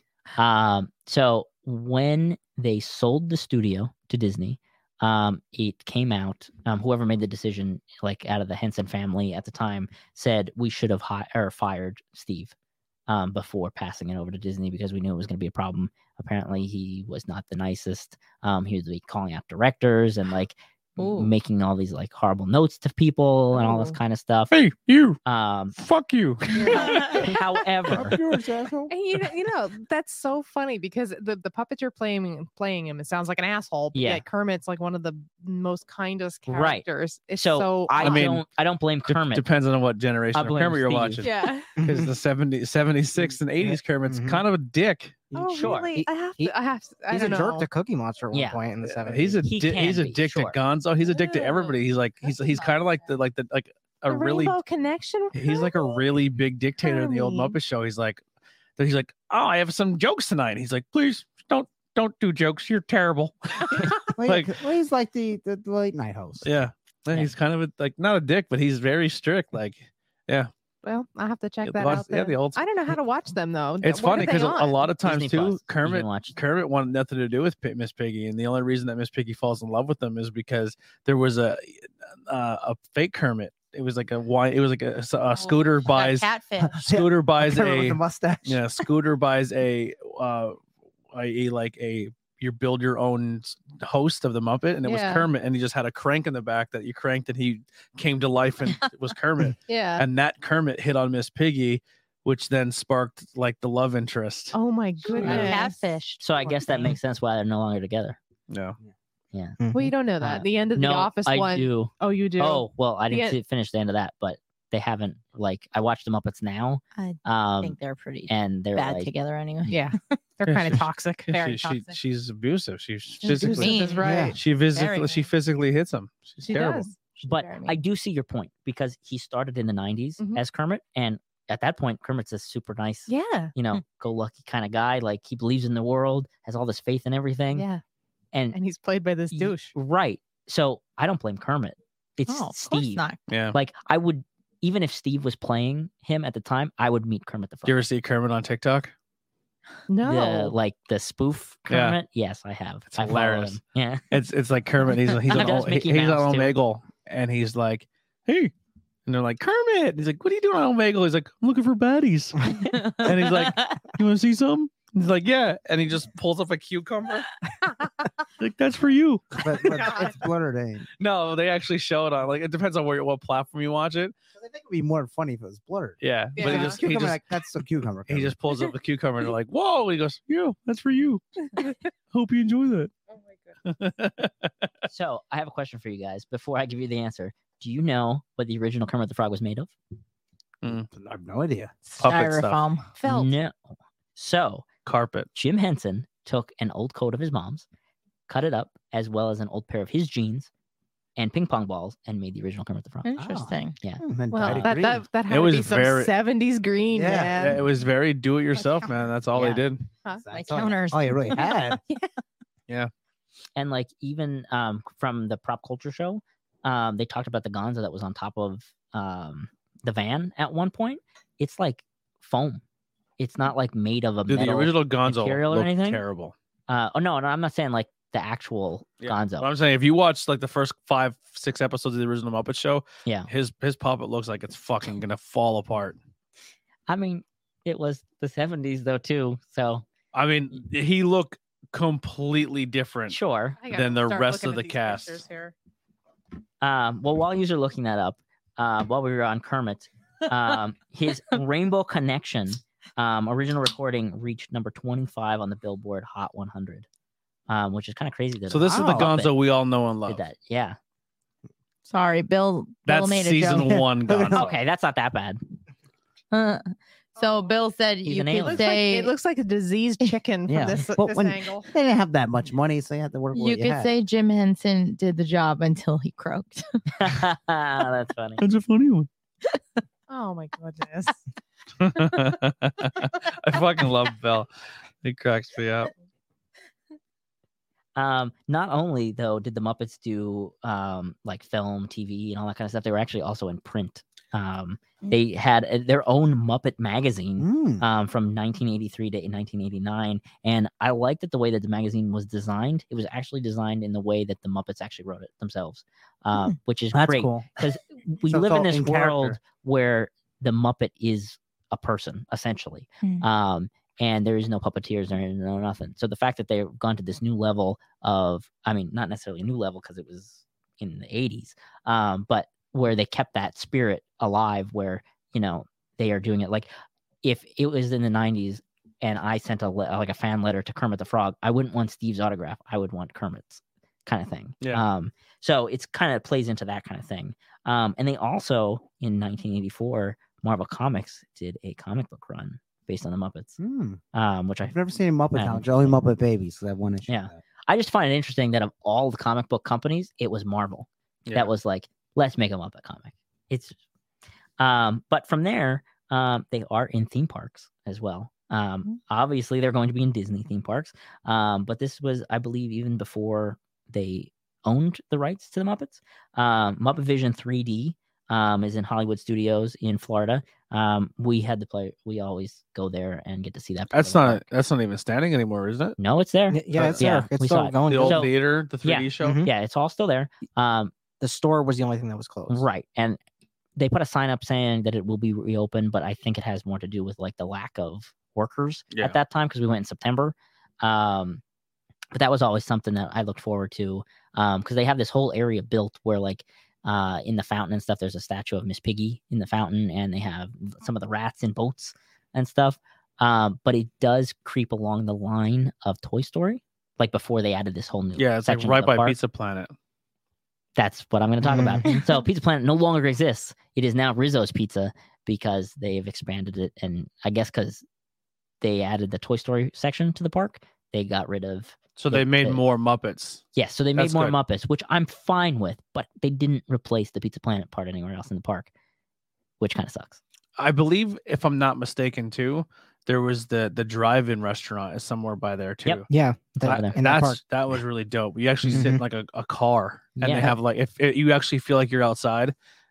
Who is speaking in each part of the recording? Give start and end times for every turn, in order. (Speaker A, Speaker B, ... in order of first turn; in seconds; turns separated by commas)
Speaker A: 0.4-12.5, Speaker A: 13.1-24.5, Speaker B: 21.0-21.3, Speaker C: 23.5-24.0, Speaker D: 24.5-25.2, Speaker A: 25.2-25.8, Speaker D: 25.8-27.2, Speaker C: 26.5-27.4, Speaker A: 26.7-28.2, Speaker B: 26.7-27.2, Speaker E: 27.9-28.9, Speaker C: 28.9-38.2, Speaker A: 33.9-34.2, Speaker A: 36.5-36.8, Speaker A: 37.4-39.5, Speaker D: 38.0-38.4, Speaker D: 39.1-45.2, Speaker A: 40.3-41.2, Speaker C: 41.2-41.7, Speaker E: 43.6-44.4, Speaker C: 45.3-47.7, Speaker A: 45.5-46.0, Speaker F: 45.9-46.5, Speaker F: 47.1-49.4, Speaker A: 48.3-48.6, Speaker D: 48.8-54.6, Speaker A: 49.4-50.6, Speaker C: 51.0-51.4, Speaker B: 52.2-53.1, Speaker C: 54.1-56.0, Speaker D: 55.3-58.2, Speaker C: 56.8-57.5, Speaker D: 58.8-64.5, Speaker E: 64.1-66.5, Speaker D: 66.4-70.5, Speaker C: 70.8-74.9, Speaker D: 71.6-72.9, Speaker D: 73.8-81.7, Speaker A: 75.0-76.3, Speaker D: 82.3-86.3, Speaker B: 85.4-86.8, Speaker E: 86.6-88.7, Speaker D: 86.8-90.6, Speaker D: 91.1-104.6, Speaker C: 94.8-95.3, Speaker C: 99.7-100.0, Speaker C: 104.5-105.9, Speaker B: 105.0-106.9, Speaker D: 105.2-105.5, Speaker A: 106.2-108.2, Speaker D: 108.5-108.8, Speaker A: 109.3-109.6, Speaker F: 109.6-109.9, Speaker C: 109.7-113.4, Speaker A: 110.2-119.1, Speaker B: 117.0-120.1, Speaker C: 119.7-121.3, Speaker D: 120.5-123.7, Speaker B: 121.3-122.0, Speaker C: 123.2-124.4, Speaker E: 123.4-124.4, Speaker B: 123.4-125.3, Speaker D: 124.3-126.9, Speaker C: 126.4-127.0, Speaker B: 127.2-127.7, Speaker A: 127.2-137.7, Speaker C: 133.1-133.5, Speaker C: 137.5-137.8, Speaker C: 138.5-139.7, Speaker A: 139.3-147.8, Speaker B: 142.3-143.2, Speaker D: 143.3-143.6, Speaker D: 147.7-148.9, Speaker C: 149.9-150.5, Speaker A: 150.0-154.1, Speaker D: 151.7-152.0, Speaker D: 152.9-153.6, Speaker D: 154.1-158.5, Speaker A: 155.2-156.5, Speaker D: 159.1-167.4, Speaker B: 162.7-163.7, Speaker D: 168.4-170.1, Speaker E: 169.4-170.9, Speaker D: 171.0-174.1, Speaker E: 174.3-178.3, Speaker D: 176.0-177.2, Speaker C: 176.4-176.8, Speaker D: 178.1-182.9, Speaker C: 183.1-183.5, Speaker D: 183.6-184.5, Speaker A: 184.9-189.7, Speaker E: 190.7-191.8, Speaker B: 191.9-192.9, Speaker D: 192.0-192.6, Speaker C: 193.0-193.3, Speaker A: 193.0-194.7, Speaker D: 194.8-195.3, Speaker A: 195.3-197.6, Speaker A: 198.3-200.5, Speaker A: 201.2-203.2, Speaker B: 203.0-203.8, Speaker E: 203.2-205.0, Speaker A: 203.8-204.7, Speaker C: 204.3-207.6, Speaker D: 205.3-206.1, Speaker E: 206.9-207.6, Speaker D: 207.3-209.9, Speaker A: 209.3-209.6, Speaker E: 210.2-211.8, Speaker B: 210.3-211.8, Speaker A: 213.6-222.6, Speaker A: 223.2-226.0, Speaker D: 224.3-226.3, Speaker A: 226.7-229.5, Speaker D: 229.0-236.0, Speaker A: 236.9-239.9, Speaker D: 240.1-243.2, Speaker A: 243.1-243.6, Speaker C: 243.6-245.5, Speaker D: 243.7-245.2, Speaker A: 246.6-256.9, Speaker A: 257.5-259.3, Speaker D: 258.5-260.2, Speaker E: 258.7-259.1, Speaker A: 260.1-260.8, Speaker B: 261.8-263.7, Speaker D: 262.9-264.5, Speaker E: 263.4-264.5, Speaker A: 264.3-265.4, Speaker B: 266.3-269.1, Speaker A: 268.0-268.6, Speaker C: 268.4-271.7, Speaker E: 270.5-273.9, Speaker B: 273.3-277.2, Speaker A: 277.0-278.4, Speaker D: 278.4-279.1, Speaker C: 280.1-281.2, Speaker D: 281.8-284.5, Speaker D: 285.0-285.9, Speaker A: 287.9-326.7, Speaker E: 297.4-297.8, Speaker E: 306.9-307.7, Speaker E: 308.2-309.4, Speaker A: 327.2-343.6, Speaker E: 343.6-344.0, Speaker A: 344.1-344.7, Speaker E: 344.6-347.4, Speaker A: 345.3-346.0, Speaker A: 347.1-353.8, Speaker A: 354.6-374.4, Speaker D: 373.9-376.0, Speaker A: 376.0-380.9, Speaker F: 376.5-378.3, Speaker D: 376.7-377.1, Speaker D: 377.9-379.4, Speaker F: 379.2-379.5, Speaker F: 381.2-382.6, Speaker A: 382.5-383.2, Speaker A: 383.8-391.4, Speaker D: 388.9-389.2, Speaker A: 392.1-409.1, Speaker D: 408.2-409.7, Speaker A: 410.8-417.8, Speaker F: 411.4-411.9, Speaker A: 418.6-422.6, Speaker D: 421.9-423.4, Speaker A: 423.5-428.7, Speaker D: 423.9-424.3, Speaker A: 429.6-430.2, Speaker D: 430.6-436.1, Speaker F: 436.1-437.4, Speaker A: 436.6-436.9, Speaker D: 436.6-442.5, Speaker F: 438.7-439.0, Speaker A: 440.2-440.5